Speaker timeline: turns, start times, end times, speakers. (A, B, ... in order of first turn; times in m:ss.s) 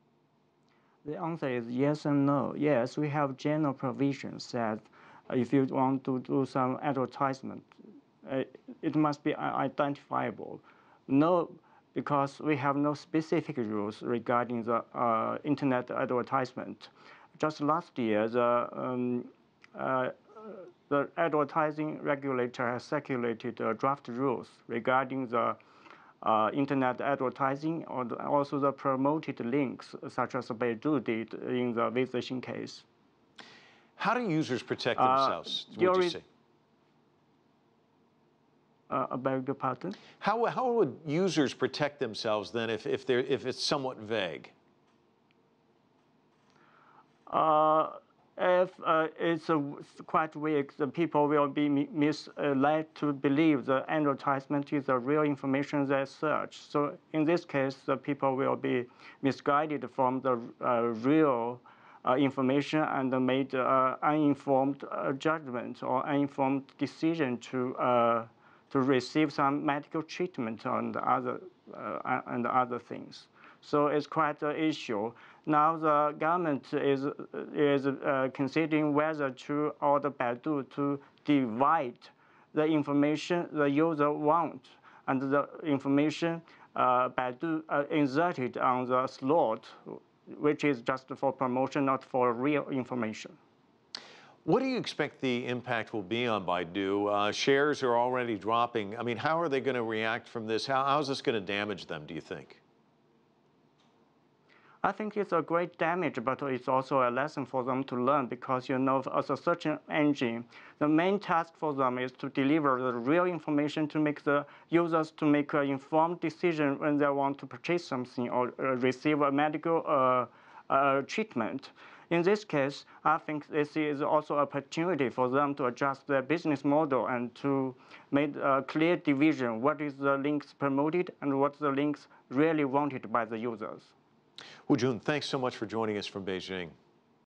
0:01.0-0:07.7 A
0:08.2-0:25.6 A
0:26.2-0:32.8 A
0:34.0-0:36.2 B
0:35.0-0:36.2 A
0:38.9-0:40.0 A
0:40.2-0:44.5 B
0:47.3-1:33.4 A
1:34.4-1:42.6 B
1:44.8-2:13.9 A
2:14.7-2:16.8 B